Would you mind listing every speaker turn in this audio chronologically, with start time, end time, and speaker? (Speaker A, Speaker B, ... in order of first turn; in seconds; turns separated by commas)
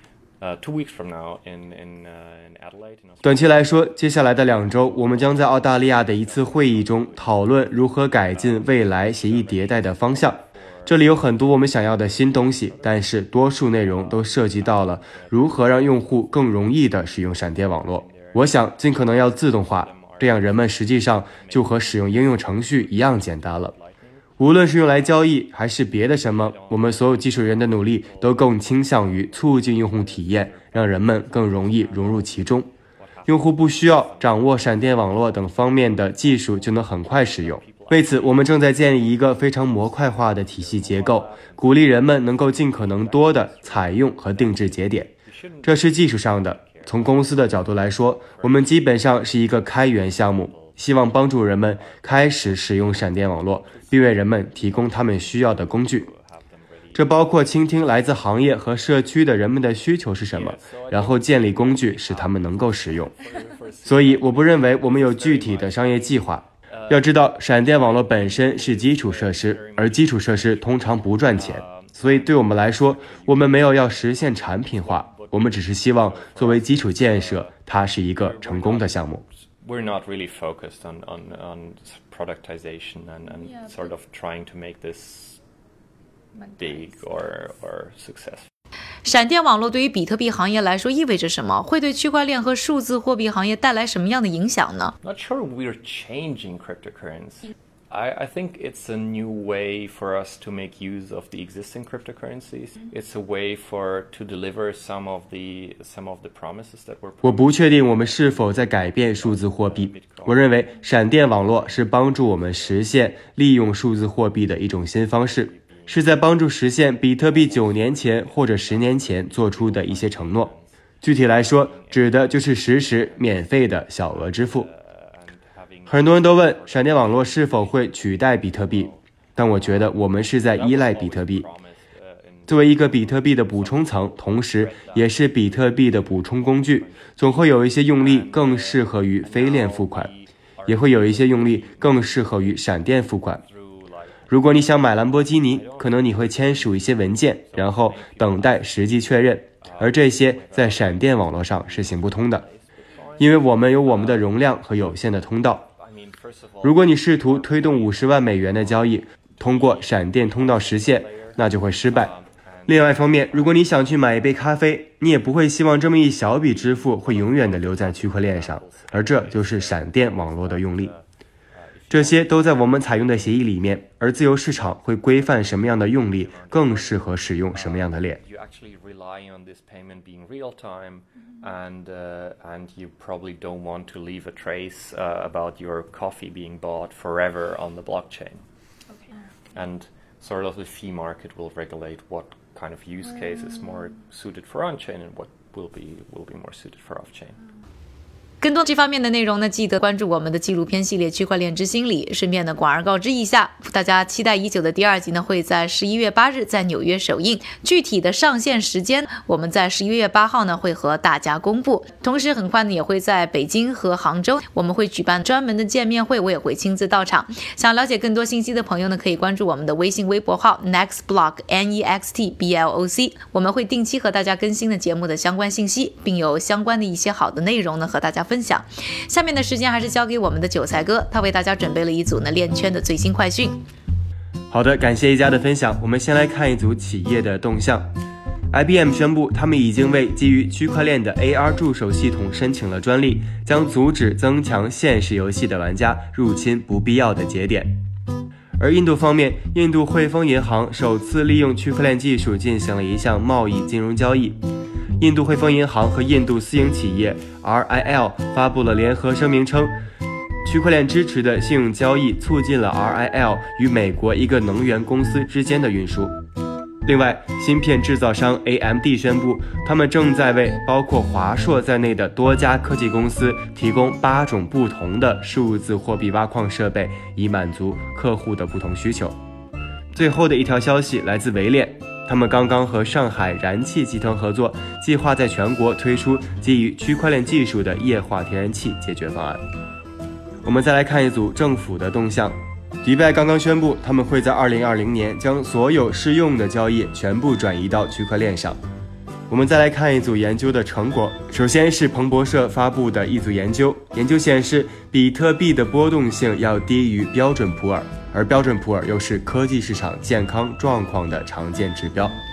Speaker A: 0.4-59.1, Speaker B: 3.2-23.7, Speaker B: 24.4-32.7, Speaker B: 33.2-45.1, Speaker B: 45.6-56.1, Speaker B: 56.9-63.1, Speaker A: 60.3-85.4, Speaker B: 63.8-79.2, Speaker A: 86.5-88.5, Speaker C: 89.0-94.9, Speaker A: 95.0-110.7, Speaker B: 107.2-120.5, Speaker A: 111.5-113.0, Speaker A: 115.2-116.3, Speaker A: 117.0-129.0, Speaker B: 121.0-124.7, Speaker B: 125.9-131.4, Speaker A: 129.6-155.1, Speaker B: 132.5-140.1, Speaker B: 140.7-143.4, Speaker B: 144.3-152.4, Speaker B: 153.2-155.7, Speaker A: 155.7-164.1, Speaker B: 156.6-162.1, Speaker B: 162.7-170.9, Speaker A: 166.4-173.5, Speaker B: 171.9-178.2, Speaker A: 175.1-188.4, Speaker A: 189.5-197.4, Speaker C: 198.4-233.6, Speaker B: 234.5-237.9, Speaker B: 238.5-247.7, Speaker B: 248.6-254.4, Speaker B: 255.0-259.7, Speaker B: 260.4-266.1, Speaker B: 266.8-279.1, Speaker B: 279.9-289.4, Speaker B: 290.4-298.6, Speaker B: 299.3-312.1